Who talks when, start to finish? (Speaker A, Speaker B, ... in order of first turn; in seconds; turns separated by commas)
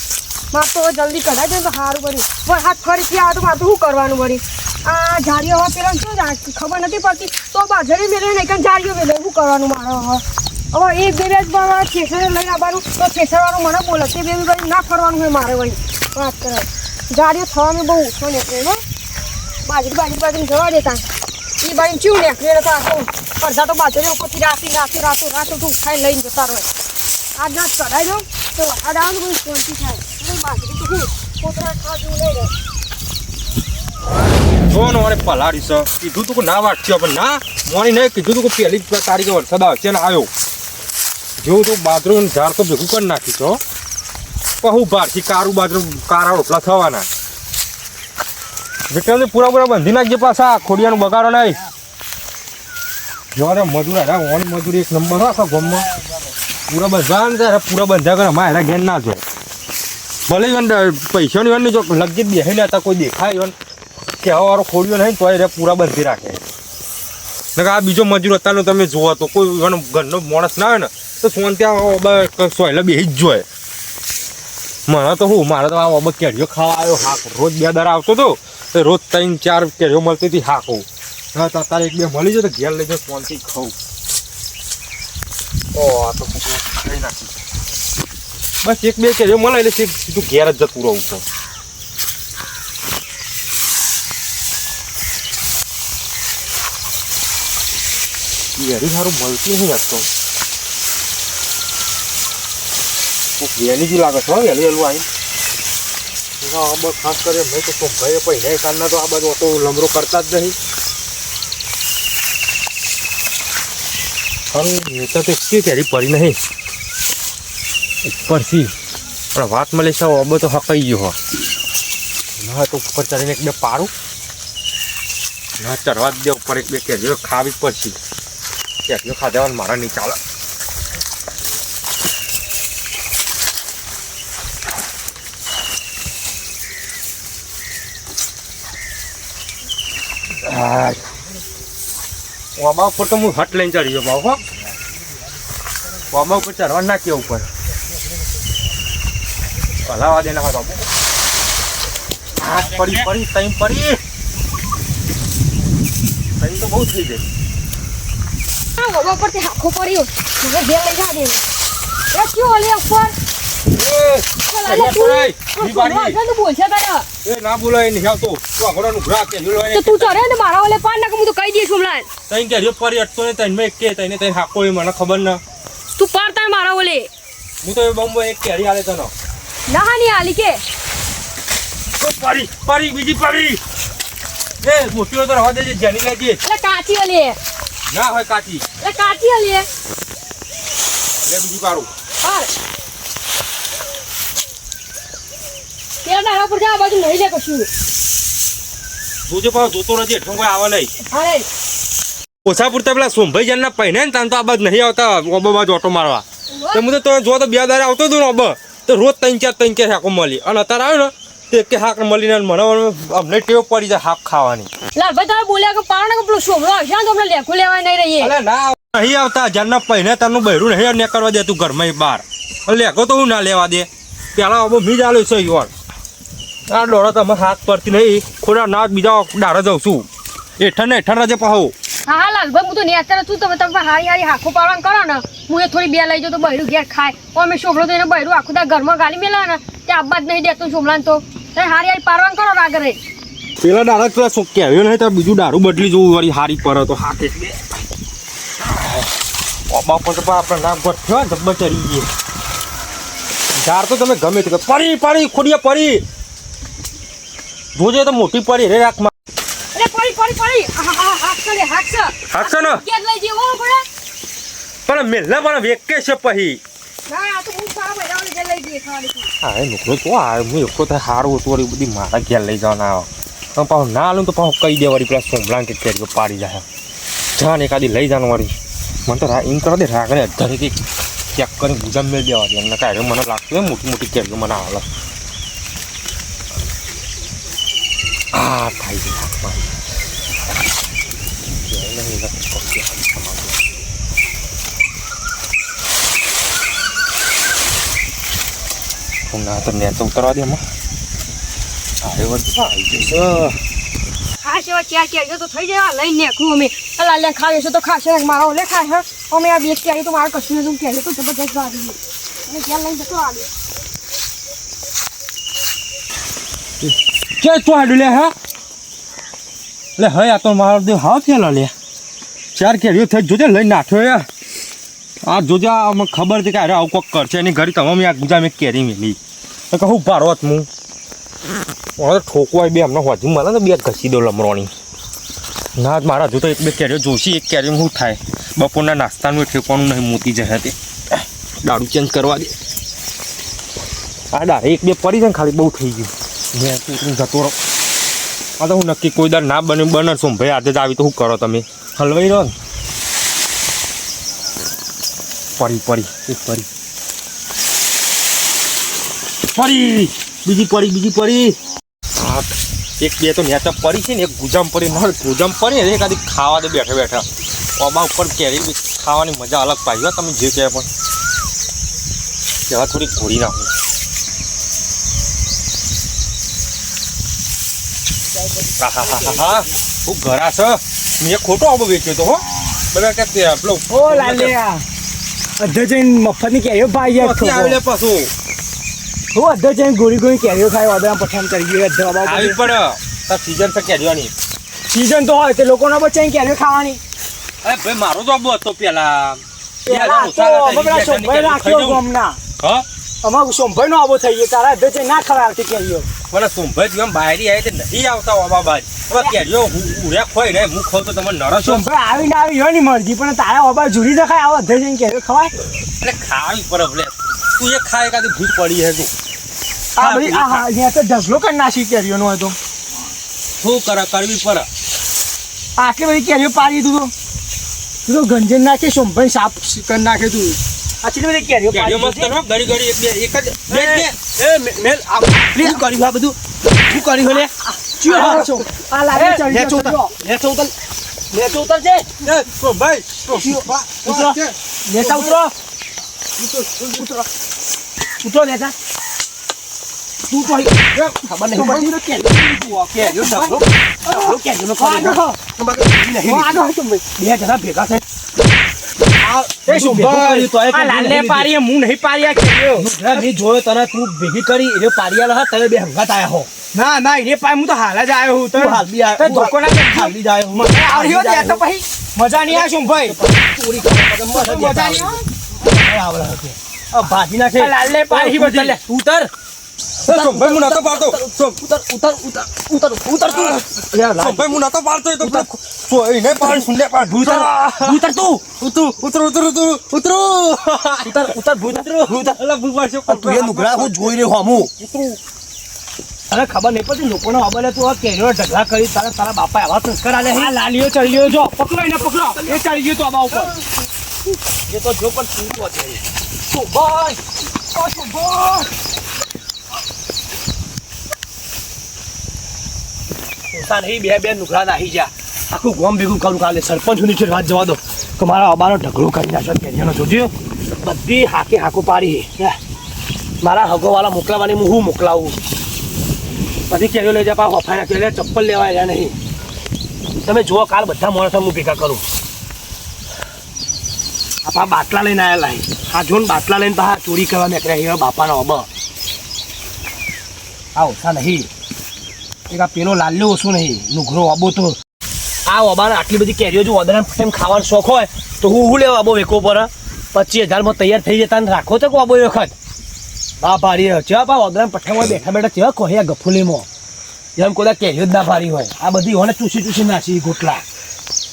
Speaker A: 0.5-18.8, Speaker A: 19.6-21.1, Speaker A: 21.6-26.7, Speaker A: 27.4-32.5, Speaker B: 34.6-40.3, Speaker B: 41.4-43.6, Speaker B: 44.6-47.1, Speaker B: 48.9-51.6, Speaker B: 53.4-55.9, Speaker B: 56.7-59.2, Speaker B: 60.3-63.5, Speaker B: 64.2-66.4, Speaker B: 67.6-73.5, Speaker B: 74.9-83.7, Speaker B: 85.7-87.4, Speaker B: 88.6-91.2, Speaker B: 98.6-100.1, Speaker B: 103.4-105.1, Speaker B: 106.4-110.5, Speaker B: 114.5-116.4, Speaker B: 118.0-118.7, Speaker B: 119.3-121.2, Speaker B: 122.4-123.9, Speaker B: 125.6-128.0, Speaker B: 128.9-130.2, Speaker B: 140.4-141.0, Speaker B: 142.6-144.4, Speaker B: 146.1-147.5, Speaker B: 149.8-150.9, Speaker B: 152.4-154.0, Speaker B: 156.4-157.2, Speaker A: 158.8-161.4, Speaker A: 162.1-163.1, Speaker B: 163.7-166.2, Speaker A: 164.4-167.1, Speaker B: 167.2-170.2, Speaker A: 169.7-172.1, Speaker B: 172.3-175.4, Speaker A: 176.0-177.1, Speaker B: 177.6-179.1, Speaker A: 179.7-180.6, Speaker B: 182.0-183.6, Speaker B: 184.6-186.4, Speaker A: 186.4-187.4, Speaker B: 187.9-188.6, Speaker A: 188.8-189.7, Speaker B: 191.2-191.9, Speaker A: 192.2-192.5, Speaker A: 196.0-197.7, Speaker B: 199.3-200.9, Speaker A: 201.1-201.5, Speaker B: 202.4-214.7, Speaker A: 206.5-206.8, Speaker A: 214.9-218.3, Speaker B: 218.2-225.7, Speaker B: 226.7-230.1, Speaker B: 230.6-231.7, Speaker A: 232.1-243.0, Speaker B: 243.6-247.6, Speaker B: 248.6-249.1, Speaker B: 249.7-252.1, Speaker B: 253.6-256.0, Speaker B: 257.8-259.1, Speaker A: 259.7-263.9, Speaker B: 262.3-262.8, Speaker B: 264.9-266.6, Speaker A: 267.1-269.3, Speaker B: 269.4-276.6, Speaker B: 277.4-278.5, Speaker B: 279.1-280.8, Speaker B: 281.3-284.9, Speaker B: 288.3-289.7, Speaker B: 291.6-293.6, Speaker B: 299.3-300.6, Speaker B: 302.0-303.6, Speaker A: 304.4-313.5, Speaker B: 317.4-318.3, Speaker B: 320.0-321.7, Speaker B: 322.6-324.3, Speaker B: 325.2-329.2, Speaker B: 329.7-330.7, Speaker B: 332.0-334.7, Speaker B: 335.8-340.8, Speaker B: 341.6-342.5, Speaker B: 344.3-347.6, Speaker B: 348.6-352.5, Speaker B: 355.6-356.7, Speaker B: 359.5-361.6, Speaker B: 362.2-367.2, Speaker B: 367.8-370.9, Speaker B: 372.7-373.7, Speaker B: 378.8-384.5, Speaker C: 383.9-384.8, Speaker C: 385.6-387.8, Speaker B: 387.0-388.3, Speaker C: 389.3-392.6, Speaker B: 392.2-394.3, Speaker C: 394.9-397.0, Speaker B: 397.6-402.0, Speaker C: 399.9-402.4, Speaker B: 402.6-402.9, Speaker C: 403.2-406.1, Speaker B: 406.3-411.9, Speaker C: 411.6-415.5, Speaker B: 416.0-419.1, Speaker C: 420.0-422.6, Speaker B: 420.0-420.6, Speaker B: 423.6-424.7, Speaker C: 425.8-427.1, Speaker C: 428.1-430.6, Speaker D: 431.0-432.4, Speaker B: 431.7-434.1, Speaker D: 433.7-438.5, Speaker C: 438.0-440.1, Speaker D: 439.1-440.7, Speaker D: 441.3-442.1, Speaker B: 442.2-444.5, Speaker D: 443.3-445.5, Speaker B: 445.0-445.3, Speaker B: 446.4-447.0, Speaker D: 446.9-447.2, Speaker D: 448.2-448.7, Speaker D: 450.3-458.0, Speaker C: 451.6-451.9, Speaker C: 452.6-455.2, Speaker C: 456.2-457.0, Speaker D: 459.3-461.5, Speaker C: 459.6-463.2, Speaker D: 462.8-466.5, Speaker C: 466.7-473.2, Speaker D: 468.6-471.6, Speaker D: 472.4-479.3, Speaker C: 474.3-475.2, Speaker C: 477.4-478.8, Speaker B: 480.1-481.6, Speaker D: 480.1-484.6, Speaker B: 483.3-483.6, Speaker B: 484.2-488.1, Speaker D: 485.2-485.5, Speaker D: 486.4-488.5, Speaker B: 488.6-495.2, Speaker D: 491.0-492.4, Speaker D: 493.1-494.7, Speaker D: 496.3-500.5, Speaker C: 500.3-503.5, Speaker D: 501.9-503.4, Speaker D: 504.7-506.0, Speaker D: 506.5-507.2, Speaker C: 507.8-508.6, Speaker D: 513.5-522.6, Speaker D: 523.4-525.4, Speaker D: 526.7-529.2, Speaker D: 530.2-532.0, Speaker D: 534.4-538.7, Speaker D: 540.8-541.5, Speaker D: 542.5-544.8, Speaker D: 545.5-552.5, Speaker D: 553.4-556.7, Speaker D: 557.4-560.6